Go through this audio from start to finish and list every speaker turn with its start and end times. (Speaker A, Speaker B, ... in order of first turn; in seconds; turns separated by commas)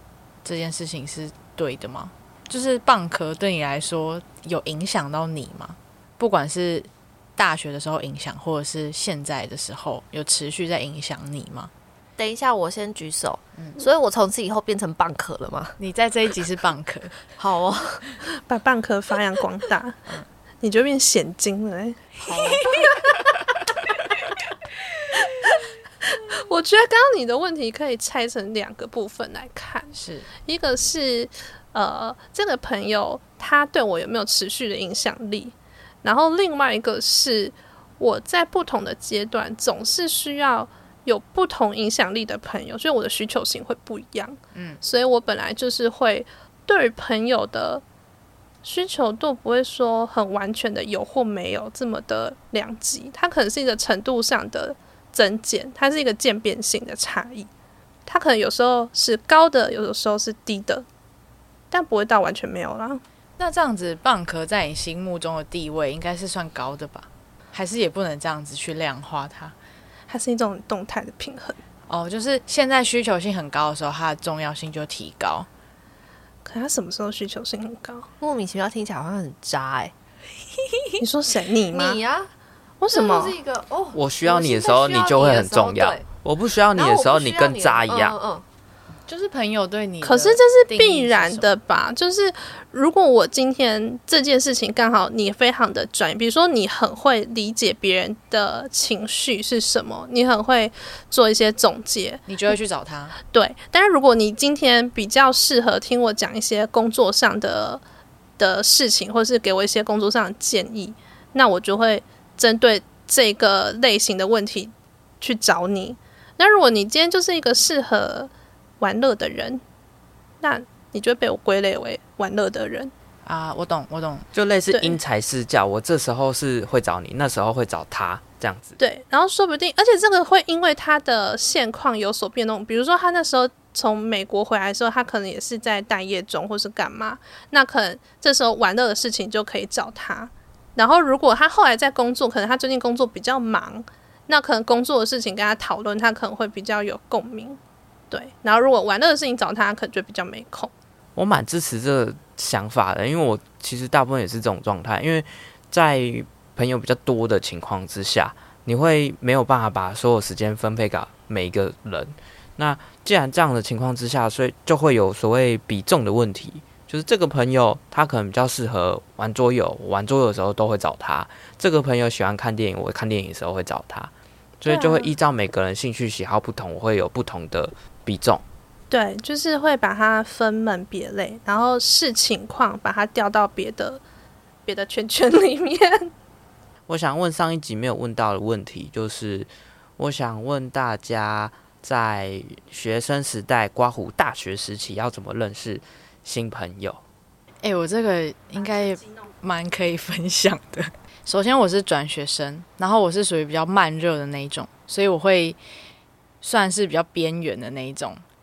Speaker A: 0.4-11.7, Speaker B: 12.2-15.8, Speaker A: 15.8-17.3, Speaker B: 17.4-18.0, Speaker C: 18.4-20.0, Speaker C: 20.6-23.3, Speaker A: 22.3-22.9, Speaker C: 25.1-29.9, Speaker A: 29.9-30.3, Speaker C: 30.4-47.8, Speaker A: 44.5-44.8, Speaker C: 48.6-57.5, Speaker C: 58.1-60.9, Speaker C: 61.7-63.0, Speaker A: 63.4-69.5, Speaker C: 70.1-71.6, Speaker A: 71.9-75.5, Speaker C: 76.4-78.1, Speaker B: 78.2-79.9, Speaker C: 81.0-82.0, Speaker B: 81.7-82.3, Speaker C: 82.8-83.4, Speaker B: 82.9-86.0, Speaker D: 83.9-88.2, Speaker B: 86.7-88.4, Speaker A: 89.1-91.5, Speaker C: 90.0-102.3, Speaker A: 102.3-103.1, Speaker C: 103.3-107.8, Speaker C: 108.4-119.6, Speaker C: 120.4-122.9, Speaker A: 123.2-124.3, Speaker D: 124.3-128.8, Speaker C: 124.7-125.0, Speaker C: 128.8-147.6, Speaker C: 148.1-150.7, Speaker D: 151.2-178.4, Speaker C: 174.7-175.1, Speaker C: 178.9-184.0, Speaker C: 184.7-186.1, Speaker D: 186.9-197.0, Speaker A: 197.6-205.6, Speaker A: 206.4-208.2